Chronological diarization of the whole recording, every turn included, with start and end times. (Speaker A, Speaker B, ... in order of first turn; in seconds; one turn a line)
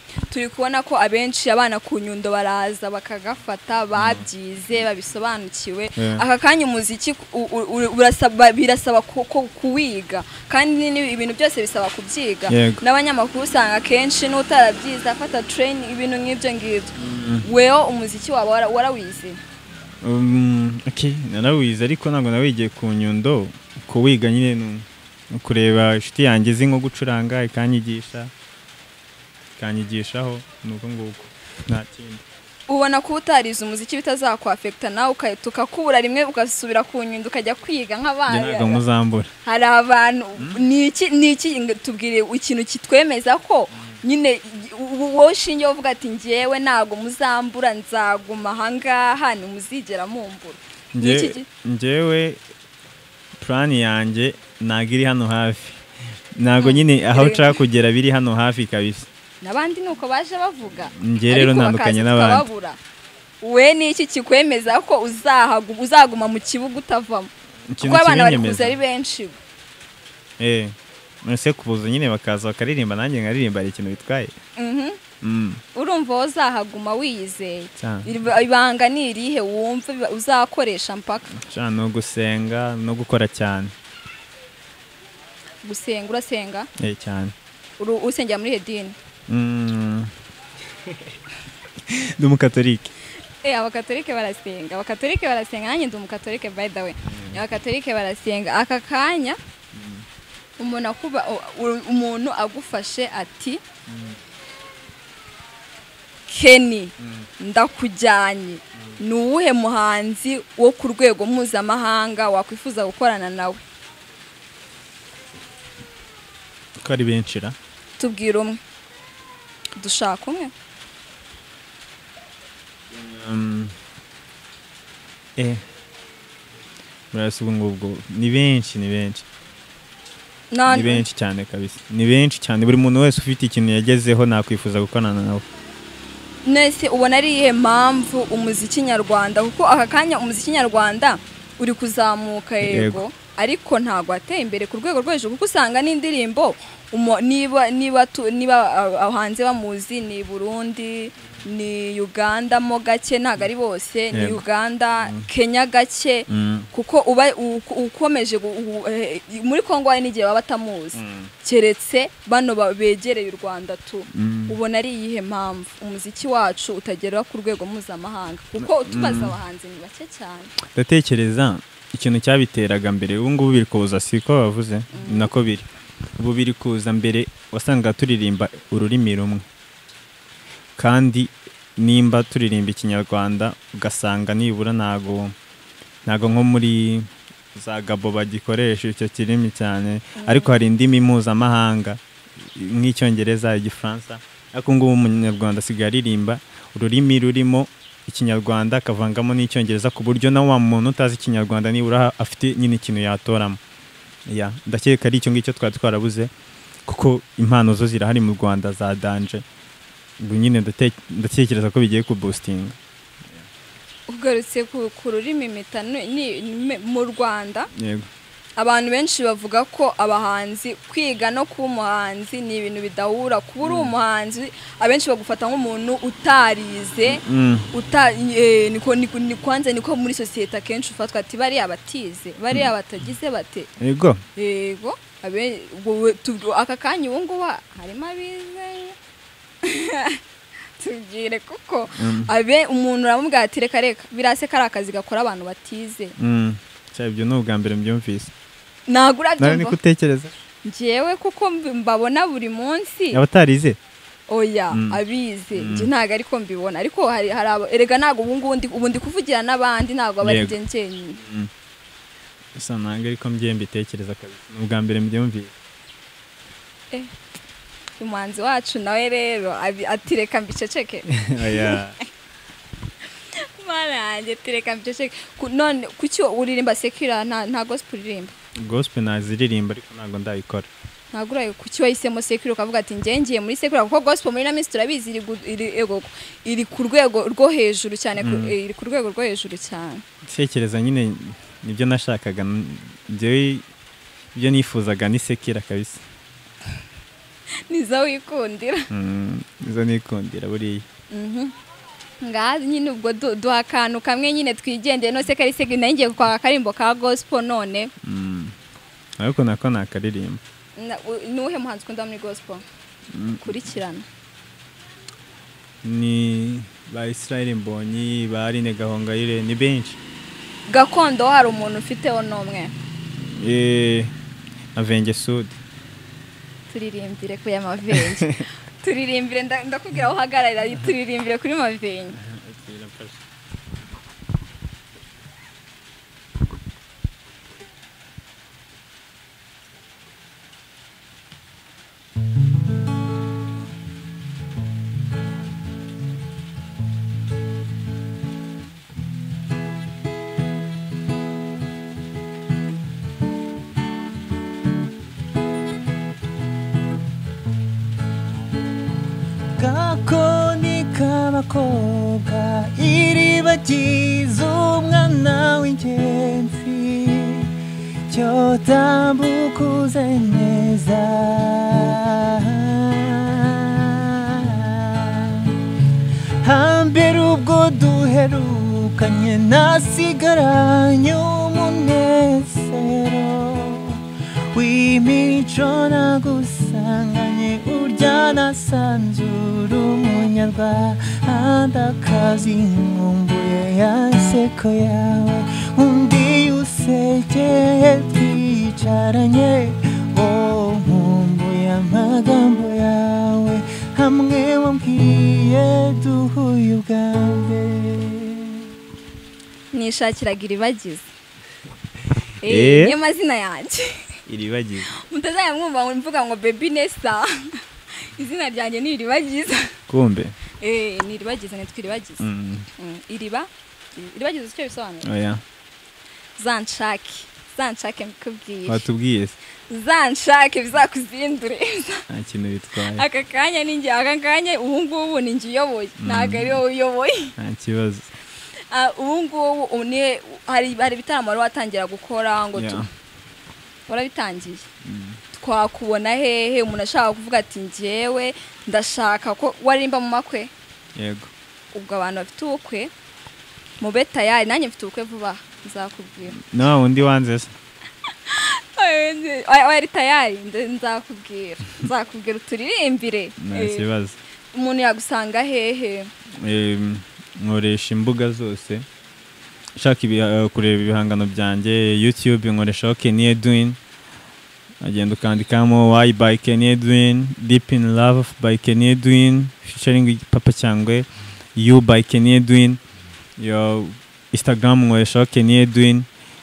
Speaker A: 0.3-19.4
Speaker B: 4.0-4.2
Speaker B: 6.0-6.2
Speaker B: 12.5-12.8
Speaker B: 17.0-17.4
Speaker B: 20.0-28.3
Speaker B: 29.6-32.2
Speaker A: 32.7-38.8
Speaker B: 38.3-39.3
Speaker A: 39.4-51.5
Speaker B: 43.7-44.0
Speaker B: 51.0-52.4
Speaker B: 53.4-55.8
Speaker B: 56.4-59.1
Speaker A: 56.6-57.5
Speaker A: 59.4-62.8
Speaker B: 61.0-62.5
Speaker A: 63.4-67.3
Speaker B: 67.7-68.8
Speaker A: 67.8-69.4
Speaker B: 70.4-74.3
Speaker A: 74.6-75.0
Speaker B: 75.2-75.6
Speaker A: 75.8-81.3
Speaker B: 77.8-78.1
Speaker B: 81.4-83.7
Speaker A: 85.6-86.7
Speaker B: 86.8-87.3
Speaker A: 87.8-89.0
Speaker B: 89.3-90.1
Speaker B: 91.9-92.9
Speaker A: 93.4-99.4
Speaker B: 97.1-97.4
Speaker B: 99.7-100.0
Speaker A: 100.6-103.6
Speaker B: 103.9-104.2
Speaker A: 106.3-113.6
Speaker B: 107.0-107.3
Speaker B: 116.8-117.6
Speaker A: 118.0-118.6
Speaker A: 119.8-120.5
Speaker B: 122.9-123.8
Speaker B: 125.4-125.6
Speaker B: 127.1-129.2
Speaker A: 130.5-131.0
Speaker B: 130.7-135.5
Speaker A: 136.4-170.6
Speaker B: 142.6-143.0
Speaker B: 154.1-154.4
Speaker B: 155.0-155.3
Speaker B: 156.3-156.7
Speaker B: 160.9-161.3
Speaker B: 164.1-164.6
Speaker B: 168.6-169.3
Speaker B: 170.6-179.5
Speaker A: 174.9-175.3
Speaker B: 180.8-185.3
Speaker B: 186.1-203.6
Speaker A: 190.2-190.5
Speaker B: 204.3-206.3
Speaker B: 206.9-209.4
Speaker B: 210.2-212.8
Speaker A: 214.1-217.7
Speaker B: 217.8-218.1
Speaker A: 218.6-233.7
Speaker B: 223.6-223.9
Speaker B: 227.1-227.7
Speaker B: 233.8-234.2
Speaker A: 234.4-239.0
Speaker A: 239.6-240.2
Speaker A: 240.8-246.2
Speaker B: 242.0-242.3
Speaker B: 246.2-248.3
Speaker A: 248.9-249.8
Speaker B: 249.4-250.4
Speaker A: 250.7-253.2
Speaker B: 253.1-253.8
Speaker A: 254.3-261.2
Speaker B: 254.7-255.0
Speaker B: 255.6-255.9
Speaker B: 260.2-260.5
Speaker B: 261.2-261.5
Speaker B: 262.6-265.5
Speaker A: 268.0-272.0
Speaker B: 271.1-271.9
Speaker A: 273.3-278.3
Speaker B: 278.6-280.7
Speaker A: 281.1-290.0
Speaker B: 288.2-288.5
Speaker B: 290.3-293.6
Speaker B: 294.3-296.0
Speaker A: 297.7-298.9
Speaker B: 298.9-300.9
Speaker A: 301.1-301.5
Speaker A: 302.2-307.9
Speaker B: 308.0-308.6
Speaker B: 309.2-310.4
Speaker A: 310.8-312.6
Speaker B: 313.1-313.6
Speaker A: 313.4-314.1
Speaker B: 315.8-320.0
Speaker A: 320.7-322.7
Speaker B: 323.2-324.1
Speaker B: 324.8-325.6
Speaker A: 326.7-332.2
Speaker B: 328.1-328.4
Speaker B: 332.2-333.2
Speaker C: 359.6-367.5
Speaker C: 368.1-375.8
Speaker C: 376.4-408.7
Speaker A: 409.7-411.1
Speaker A: 412.4-414.1
Speaker B: 412.4-413.0
Speaker B: 414.3-414.9
Speaker A: 414.9-419.7
Speaker B: 419.9-420.4
Speaker A: 420.6-422.2
Speaker B: 422.2-422.7
Speaker A: 422.8-425.1
Speaker B: 425.0-425.4
Speaker A: 426.4-428.9
Speaker B: 428.7-429.4
Speaker A: 429.7-432.1
Speaker B: 432.1-433.1
Speaker A: 432.9-437.4
Speaker B: 436.0-436.6
Speaker B: 437.4-438.1
Speaker A: 438.7-442.9
Speaker B: 442.6-442.9
Speaker A: 443.9-444.7
Speaker B: 444.8-445.2
Speaker A: 445.3-450.5
Speaker B: 450.9-451.3
Speaker A: 451.7-452.9
Speaker A: 453.8-456.4
Speaker B: 456.4-457.5
Speaker A: 458.3-463.9
Speaker B: 463.4-464.2
Speaker A: 464.5-466.1
Speaker B: 466.4-468.9
Speaker B: 469.8-473.8
Speaker B: 474.8-482.8
Speaker B: 483.4-486.1